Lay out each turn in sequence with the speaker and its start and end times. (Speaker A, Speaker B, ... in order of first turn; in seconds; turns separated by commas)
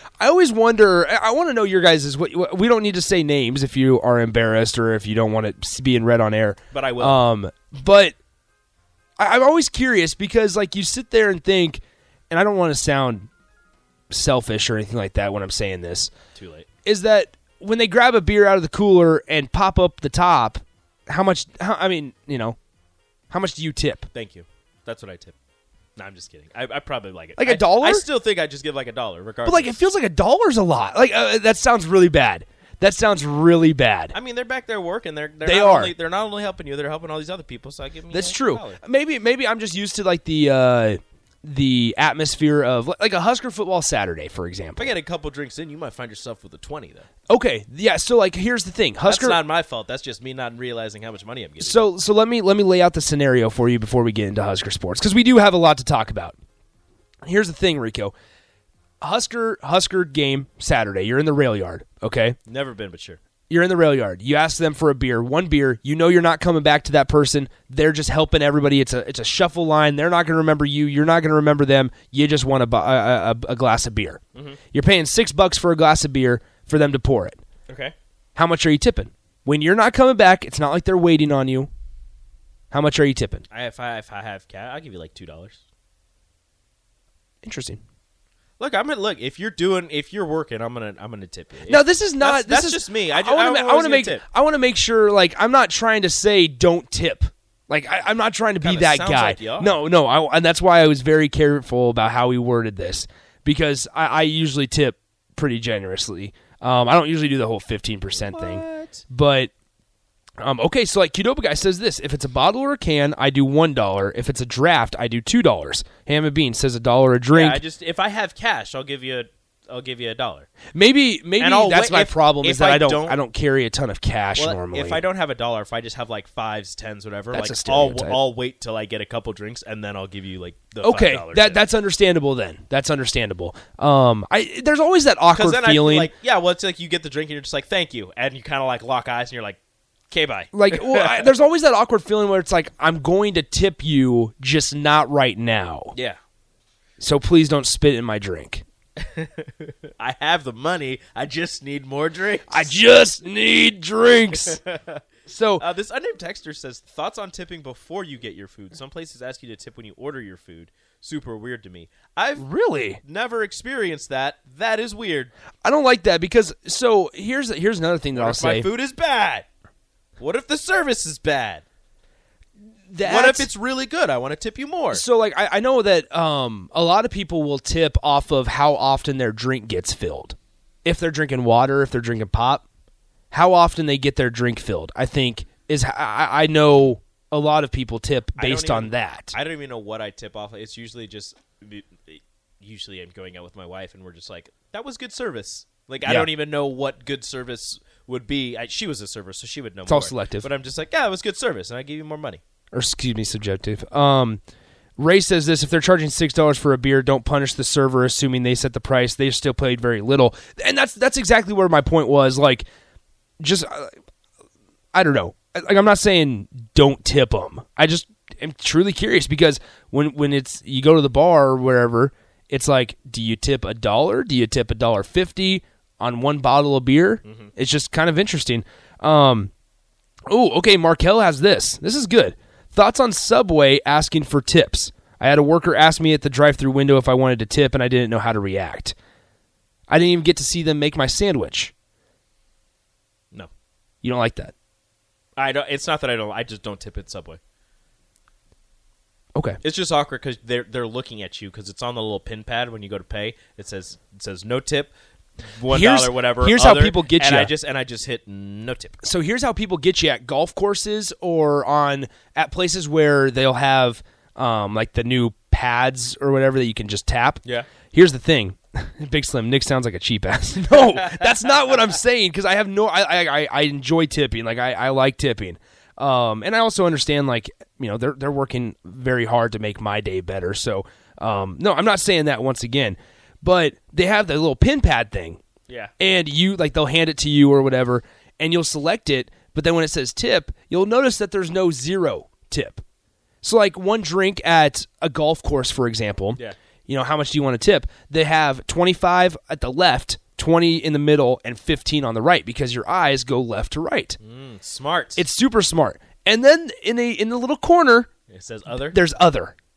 Speaker A: 0.2-8.2, Speaker B: 6.7-7.2, Speaker A: 9.2-13.3, Speaker A: 14.1-16.1, Speaker B: 16.4-16.7, Speaker A: 16.9-22.6, Speaker A: 23.3-24.1, Speaker B: 24.1-25.4, Speaker B: 26.0-29.8, Speaker A: 27.4-28.1, Speaker A: 29.4-34.1, Speaker B: 34.1-38.8, Speaker A: 35.5-35.9, Speaker A: 38.1-44.9, Speaker B: 44.8-47.1, Speaker A: 47.3-49.4, Speaker B: 49.1-51.9, Speaker A: 51.6-56.4, Speaker A: 57.2-58.1, Speaker A: 59.0-62.4, Speaker B: 62.5-63.2, Speaker A: 63.5-74.2, Speaker A: 74.7-77.4, Speaker B: 77.7-77.9, Speaker A: 78.4-81.7, Speaker A: 82.7-83.5, Speaker B: 83.5-85.6, Speaker A: 87.4-87.8, Speaker B: 88.6-94.2, Speaker A: 91.7-109.5, Speaker B: 98.6-99.7, Speaker B: 108.3-109.0, Speaker A: 110.4-117.6, Speaker B: 117.3-120.5, Speaker A: 120.7-125.0, Speaker B: 121.4-123.2, Speaker B: 124.4-131.6, Speaker A: 127.3-128.2, Speaker A: 130.8-136.1, Speaker B: 135.4-139.6, Speaker B: 140.1-141.3, Speaker A: 140.5-145.9, Speaker A: 147.0-148.6, Speaker B: 149.0-152.7, Speaker A: 152.5-154.6, Speaker B: 154.3-155.0, Speaker A: 155.3-155.6, Speaker B: 155.6-162.5, Speaker A: 162.4-163.0, Speaker B: 163.0-165.3, Speaker A: 165.6-168.7, Speaker B: 168.2-169.5, Speaker B: 170.2-171.6, Speaker A: 172.9-173.5, Speaker B: 173.0-175.0, Speaker A: 174.9-182.6, Speaker A: 183.3-189.3, Speaker B: 188.4-202.4, Speaker A: 196.1-196.3, Speaker A: 199.9-200.5, Speaker A: 202.7-204.4, Speaker A: 205.0-212.7, Speaker A: 213.4-213.9, Speaker A: 214.9-229.5, Speaker B: 227.2-227.5, Speaker A: 230.3-238.9, Speaker A: 239.9-241.7, Speaker A: 244.0-244.5, Speaker B: 245.4-247.4, Speaker B: 249.6-254.9, Speaker B: 255.6-259.0, Speaker A: 255.7-257.5, Speaker A: 259.0-285.4, Speaker B: 271.0-271.3, Speaker A: 286.0-292.8, Speaker A: 293.4-304.2, Speaker B: 304.2-305.2, Speaker A: 305.2-308.1, Speaker B: 308.3-309.0, Speaker A: 308.9-309.5